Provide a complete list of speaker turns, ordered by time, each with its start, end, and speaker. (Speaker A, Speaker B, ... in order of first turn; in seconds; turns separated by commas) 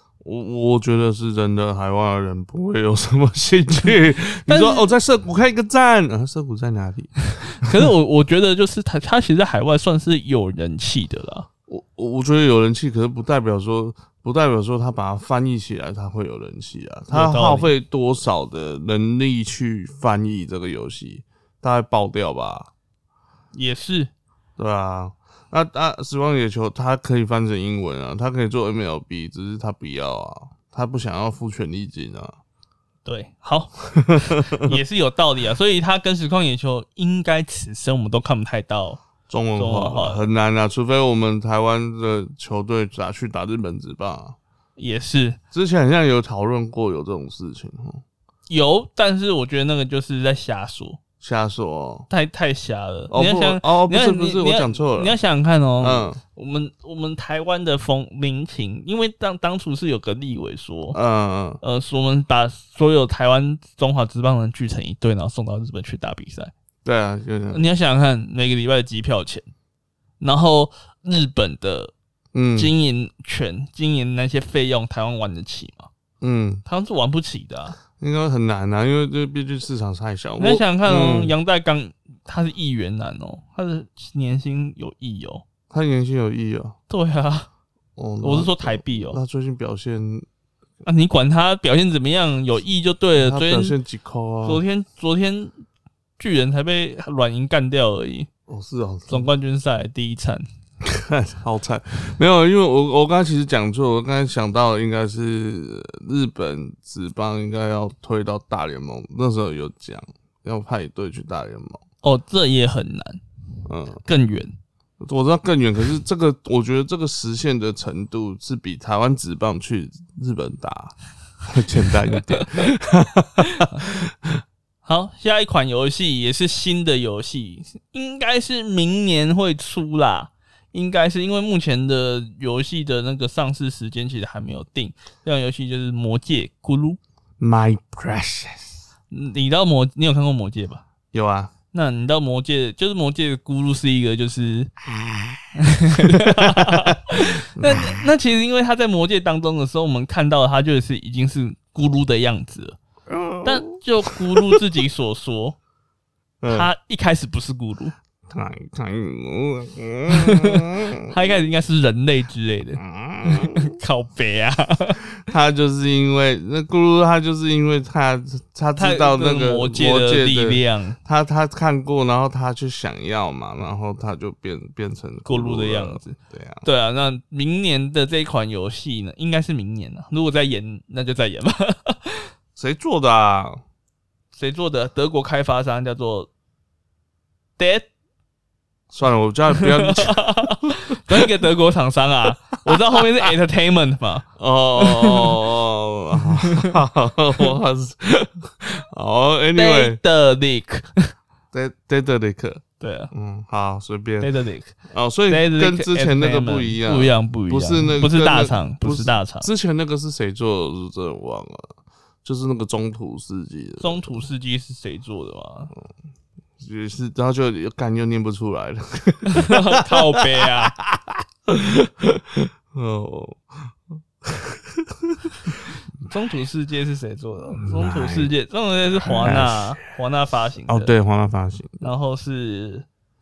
Speaker A: 0.2-7.8, Speaker B: 4.5-4.9, Speaker B: 7.6-11.5, Speaker A: 11.7-22.7, Speaker B: 17.1-17.7, Speaker B: 23.5-24.1, Speaker A: 24.6-32.4, Speaker B: 33.0-39.0, Speaker A: 33.9-34.8, Speaker A: 39.3-44.4, Speaker B: 39.5-40.2, Speaker B: 44.8-45.4, Speaker A: 45.5-48.0, Speaker B: 48.5-51.0, Speaker A: 51.2-52.1, Speaker B: 52.1-61.0, Speaker A: 53.1-55.1, Speaker A: 55.8-56.2, Speaker A: 60.9-61.6, Speaker B: 61.6-66.5, Speaker A: 66.8-67.6, Speaker B: 67.5-69.5, Speaker B: 70.2-71.9, Speaker A: 72.3-72.7, Speaker B: 72.5-75.9, Speaker A: 76.2-76.6, Speaker B: 76.6-77.8, Speaker A: 78.0-81.3, Speaker B: 80.4-85.4, Speaker A: 85.7-86.7, Speaker B: 86.9-87.5, Speaker A: 88.0-90.2, Speaker B: 88.2-89.2, Speaker B: 90.8-93.8, Speaker A: 93.1-94.6, Speaker B: 94.4-95.5, Speaker B: 96.2-98.3, Speaker A: 98.5-99.3, Speaker B: 99.1-100.4, Speaker A: 100.8-111.8, Speaker B: 112.0-113.2, Speaker A: 113.7-114.0, Speaker B: 114.0-114.5, Speaker A: 115.0-124.4, Speaker B: 123.4-124.0, Speaker B: 124.8-137.0, Speaker A: 137.4-138.7, Speaker B: 139.1-140.8, Speaker A: 141.1-141.5, Speaker B: 141.7-144.7, Speaker B: 145.5-152.8, Speaker A: 146.0-148.0, Speaker A: 153.1-154.6, Speaker B: 153.4-155.6, Speaker A: 156.4-156.7, Speaker B: 156.5-157.9, Speaker A: 158.3-161.1, Speaker B: 160.1-165.0, Speaker A: 162.8-163.7, Speaker A: 165.3-176.6, Speaker B: 168.8-171.0, Speaker B: 175.2-182.3, Speaker A: 182.6-183.6, Speaker B: 184.3-186.3, Speaker B: 187.6-187.9, Speaker A: 188.9-190.5, Speaker B: 189.6-195.4, Speaker A: 192.7-193.0, Speaker A: 194.4-200.0, Speaker B: 196.2-196.7, Speaker B: 199.5-201.1, Speaker A: 201.5-204.3, Speaker B: 202.8-203.1, Speaker B: 204.2-204.7, Speaker A: 204.9-211.7, Speaker B: 205.3-209.5, Speaker A: 212.2-214.0, Speaker B: 213.8-215.7, Speaker A: 216.6-223.7, Speaker B: 219.3-220.8, Speaker A: 224.2-225.6, Speaker B: 226.1-230.9, Speaker A: 227.5-228.3, Speaker A: 229.0-229.8, Speaker A: 230.7-231.9, Speaker B: 231.8-232.8